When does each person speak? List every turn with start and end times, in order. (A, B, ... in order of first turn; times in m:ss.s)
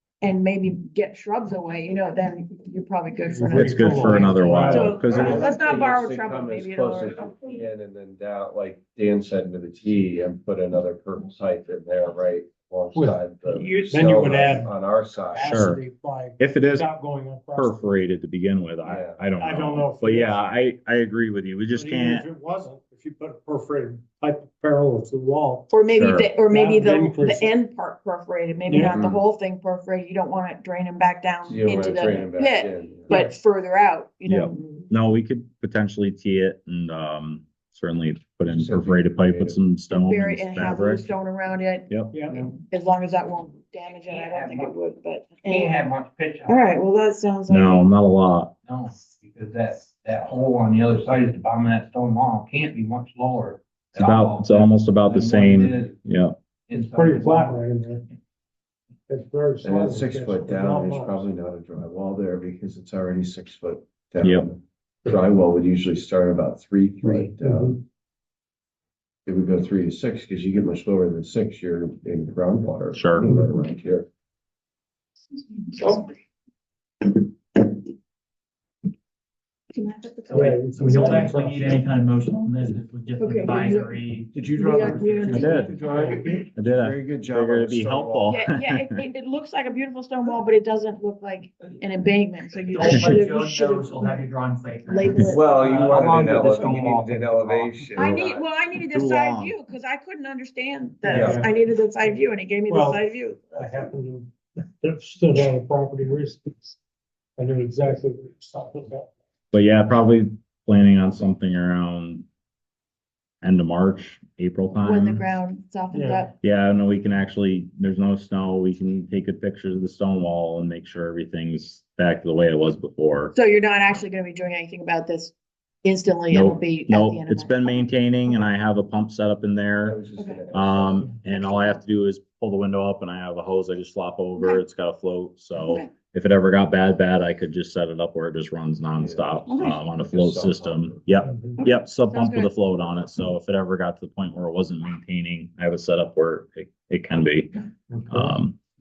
0:00.2-0:07.4 A
0:03.3-0:05.4 B
0:03.5-0:05.5 C
0:05.0-0:15.5 D
0:12.9-0:14.7 B
0:15.3-0:18.0 B
0:15.4-0:15.8 C
0:16.4-0:16.9 C
0:17.5-0:22.2 C
0:18.8-0:19.2 D
0:19.4-0:20.4 B
0:21.7-0:25.7 B
0:25.7-0:34.8 A
0:25.9-0:26.3 C
0:26.5-0:27.5 B
0:28.7-0:29.0 B
0:28.8-0:29.2 D
0:31.4-0:33.2 D
0:34.2-0:41.0 C
0:38.5-0:39.6 D
0:39.9-0:45.9 A
0:42.1-0:42.5 B
0:44.0-0:44.7 E
0:45.4-0:46.7 E
0:46.5-0:47.9 A
0:47.5-0:48.5 C
0:48.6-0:56.0 E
0:53.9-0:56.4 C
0:56.7-0:57.6 E
0:56.8-0:58.0 B
0:59.1-1:01.3 B
0:59.6-1:07.8 D
1:04.2-1:04.5 C
1:07.0-1:07.8 B
1:09.2-1:14.1 D
1:12.9-1:13.3 C
1:15.7-1:16.1 A
1:19.7-1:20.6 A
1:20.3-1:24.3 F
1:20.3-1:21.7 B
1:23.2-1:24.0 A
1:24.3-1:28.4 D
1:24.5-1:26.2 A
1:24.9-1:25.6 F
1:25.3-1:25.8 C
1:26.1-1:26.4 B
1:26.5-1:29.0 C
1:28.3-1:34.2 A
1:32.6-1:37.7 F
1:32.9-1:33.1 C
1:34.9-1:36.8 A
1:35.3-1:38.5 D
1:38.0-1:43.6 A
1:38.9-1:39.5 C
1:41.0-1:41.5 B
1:41.1-1:41.4 D
1:42.7-1:46.8 B
1:47.4-1:49.1 B
1:49.5-1:52.2 C
1:53.4-1:55.2 C
1:54.8-1:56.3 A
1:55.9-1:56.3 B
1:56.4-2:03.3 C
2:03.3-2:08.5 A
2:06.3-2:10.0 C
2:09.8-2:11.1 D
2:10.5-2:27.5 C
2:11.2-2:11.8 A
2:15.6-2:15.9 A
2:19.0-2:21.0 D
2:19.5-2:19.8 A
2:21.6-2:22.5 A
2:28.1-2:28.6 C